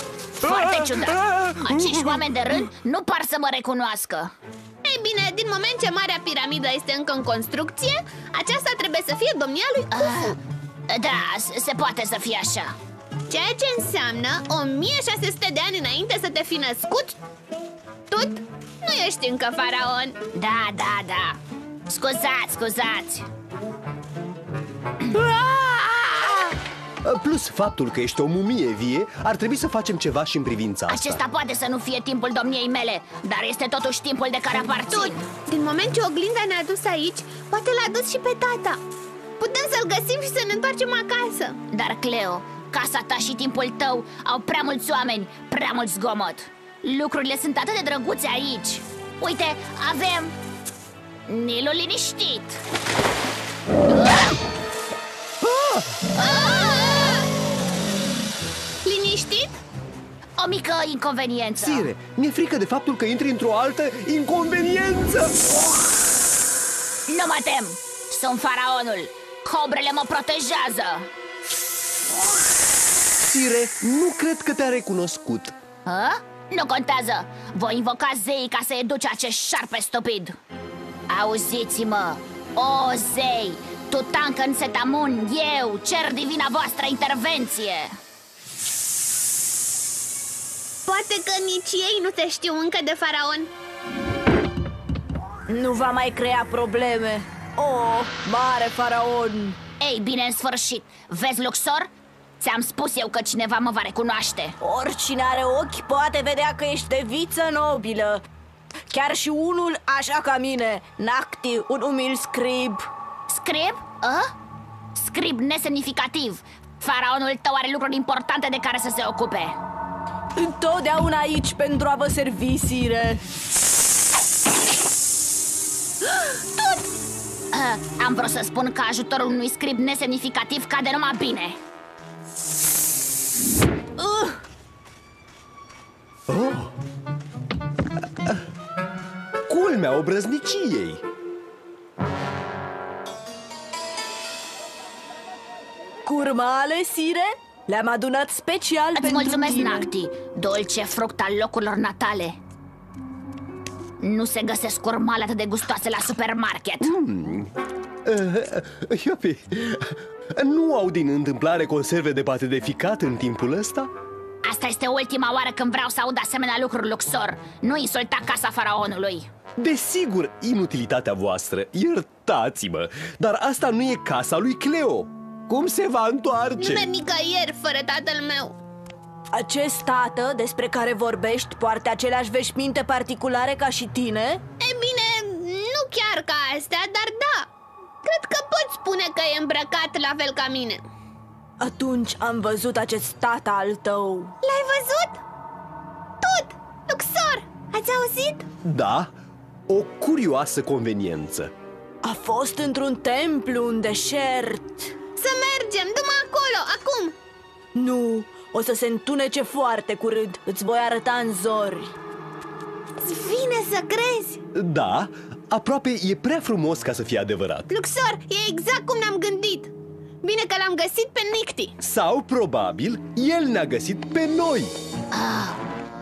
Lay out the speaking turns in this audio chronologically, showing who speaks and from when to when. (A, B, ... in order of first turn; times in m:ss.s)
0:00.4-0:04.3 A
0:04.8-0:10.4 B
0:09.9-0:12.8 A
0:13.3-0:17.2 B
0:18.1-0:20.2 B
0:20.3-0:23.3 A
0:27.0-0:31.2 C
0:30.9-0:35.2 A
0:34.9-0:38.8 B
0:39.4-0:41.6 B
0:41.7-0:50.4 A
0:51.3-0:52.6 A
0:53.9-0:54.4 A
0:55.4-0:56.0 C
0:56.2-0:57.3 B
0:56.2-0:56.9 A
0:58.8-0:59.6 B
1:00.4-1:01.9 A
1:01.6-1:05.4 C
1:07.1-1:11.1 A
1:13.2-1:15.6 C
1:15.9-1:20.4 A
1:21.1-1:28.0 A
1:30.9-1:33.5 B
1:35.5-1:39.6 D
1:39.8-1:44.6 A
1:44.6-1:48.2 D
1:48.9-1:52.9 D
1:53.3-1:54.3 A
1:55.0-1:59.6 A
2:00.4-2:03.2 D
2:06.1-2:06.8 D
2:07.5-2:11.6 A
2:14.0-2:14.4 D
2:16.3-2:16.7 C
2:19.5-2:21.0 C
2:26.0-2:29.9 D
2:29.0-2:32.4 A
2:34.0-2:36.9 A
2:36.8-2:37.5 C
2:38.0-2:43.9 C
2:44.4-2:49.3 A
2:49.6-2:56.9 C
2:56.6-2:58.6 B
2:59.3-3:04.4 D
3:04.6-3:07.5 B
3:08.0-3:10.8 B
3:11.6-3:14.3 D
3:14.4-3:15.2 B
3:16.2-3:18.5 B
3:18.6-3:19.1 C
3:19.7-3:21.5 C
3:22.0-3:24.9 D
3:25.2-3:27.2 B
3:27.8-3:31.9 D
3:33.0-3:34.4 B
3:34.5-3:37.7 C
3:37.7-3:39.7 B
3:40.2-3:41.8 B
3:41.8-3:44.8 C
3:45.1-3:45.6 A